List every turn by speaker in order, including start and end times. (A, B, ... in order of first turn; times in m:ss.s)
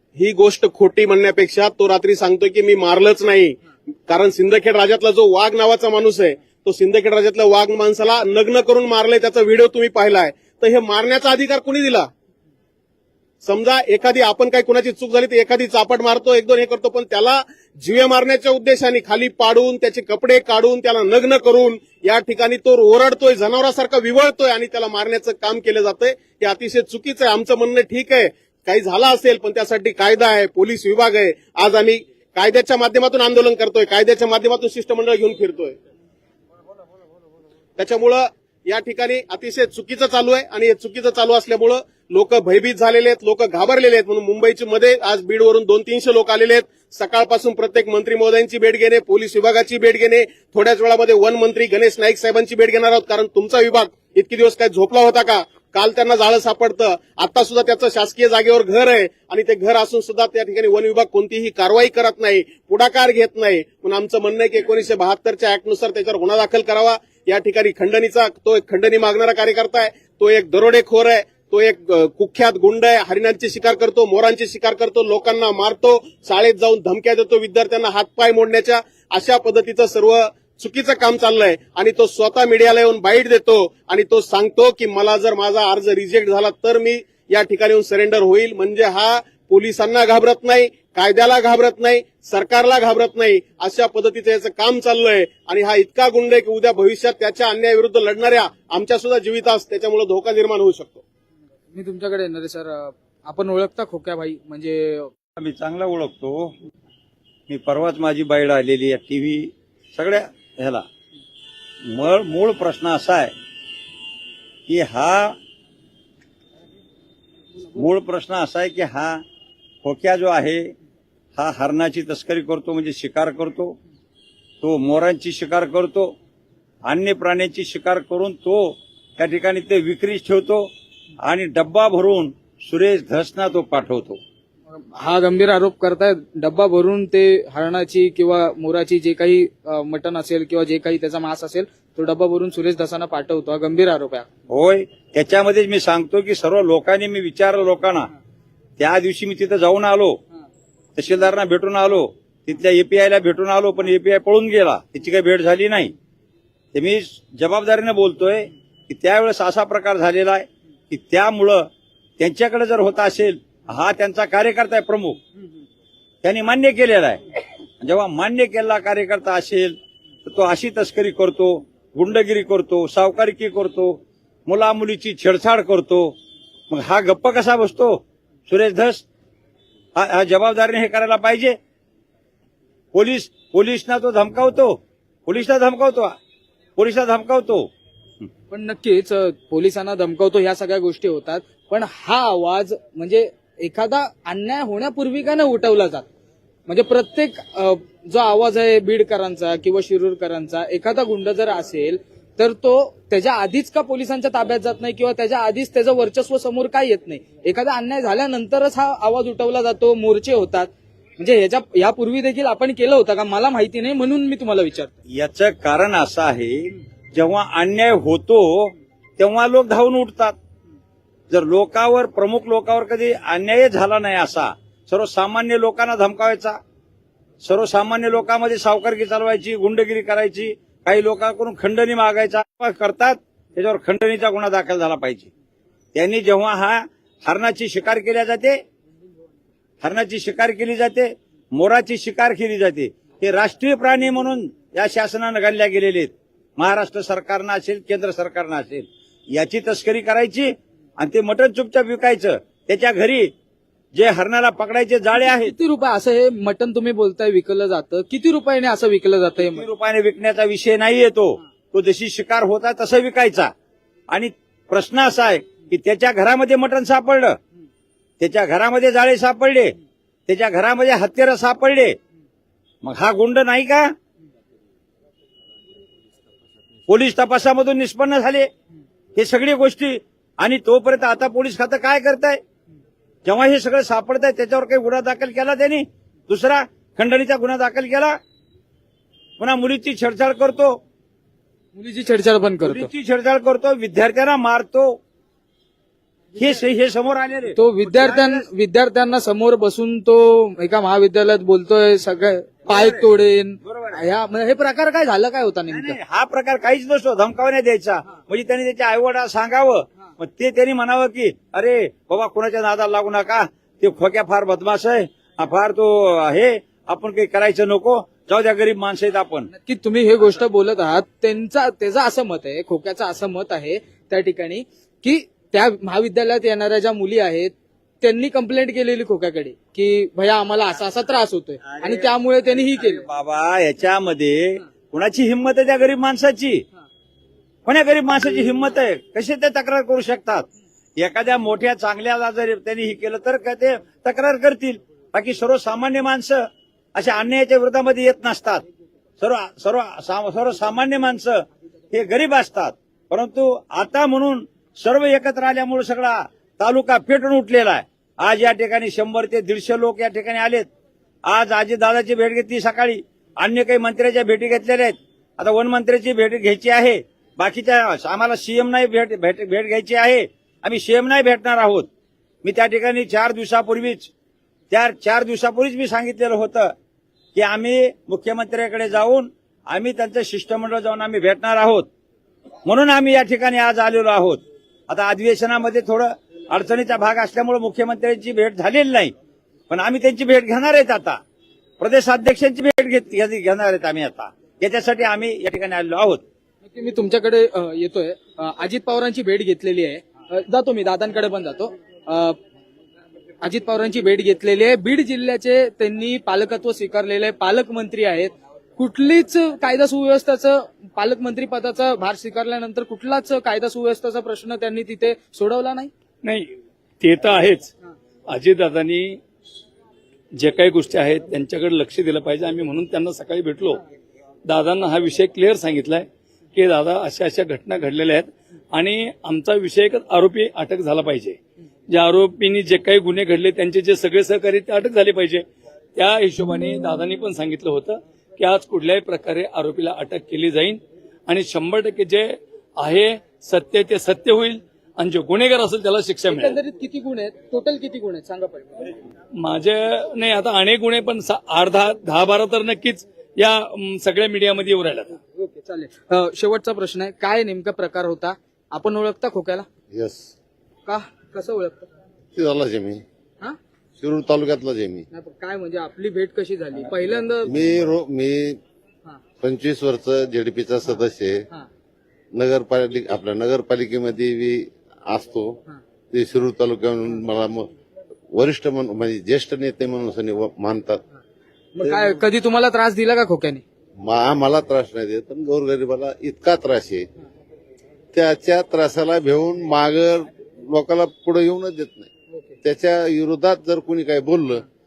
0:00.2-0:03.6 A
0:04.1-0:12.1 A
0:13.4-0:35.8 A
0:37.8-1:41.0 A
1:41.7-1:45.1 B
1:45.4-1:46.5 C
1:47.5-1:50.9 C
1:51.8-1:53.3 C
1:54.7-1:55.4 C
1:57.8-1:59.2 C
1:59.8-2:00.8 C
2:01.4-2:03.8 C
2:04.6-2:06.1 C
2:06.8-2:14.2 C
2:14.9-2:24.3 B
2:24.5-2:28.1 C
2:28.8-2:30.2 C
2:31.0-2:35.9 C
2:36.7-2:45.2 C
2:46.2-2:47.2 C
2:47.8-2:56.2 C
2:56.7-2:59.0 C
2:59.9-3:01.6 C
3:02.9-3:06.1 C
3:06.8-3:07.7 C
3:08.5-3:16.0 B
3:16.7-3:34.9 B
3:35.1-3:40.4 C
3:41.3-3:46.6 C
3:47.4-3:55.3 C
3:55.9-3:58.6 C
3:59.8-4:13.3 C
4:13.9-4:15.5 C
4:15.2-4:19.7 B
4:19.4-4:23.5 C
4:24.1-4:27.4 C
4:28.2-4:29.8 C
4:30.3-4:32.0 C
4:32.8-4:33.9 C
4:36.9-4:38.5 C
4:39.1-4:42.4 C
4:43.2-4:48.2 C
4:49.4-4:50.8 C
4:51.8-4:52.9 B
4:52.6-4:55.0 C
4:56.3-4:58.4 C
4:57.6-5:06.0 B
5:02.7-5:03.1 C
5:03.6-5:04.0 C
5:05.7-5:19.5 C
5:19.5-5:33.0 B
5:31.7-5:32.1 C
5:32.6-5:36.6 C
5:37.7-5:40.5 C
5:41.0-5:48.6 C
5:49.2-6:00.7 C
6:01.2-6:11.9 C
6:12.4-6:14.1 C
6:14.7-6:16.8 C
6:17.3-6:21.9 C
6:22.6-6:29.1 C
6:29.7-6:31.2 C
6:31.8-6:36.2 C
6:36.6-6:42.4 B
6:43.4-6:55.9 B
6:56.2-6:57.7 D
6:58.3-6:59.2 D
7:00.4-7:03.8 D
7:04.5-7:11.4 D
7:11.9-7:15.4 D
7:16.0-7:26.6 D
7:26.3-7:28.8 B
7:29.4-7:35.2 D
7:35.3-7:39.7 B
7:39.9-7:40.3 E
7:40.9-7:41.9 B
7:42.3-7:43.0 E
7:44.0-7:45.0 E
7:45.1-7:47.5 B
7:47.5-7:48.6 E
7:49.4-7:51.4 E
7:52.3-7:55.6 E
7:56.1-7:57.7 E
7:58.3-8:01.0 E
8:01.8-8:03.6 B
8:04.0-8:07.1 E
8:08.1-8:12.1 E
8:12.6-8:14.6 E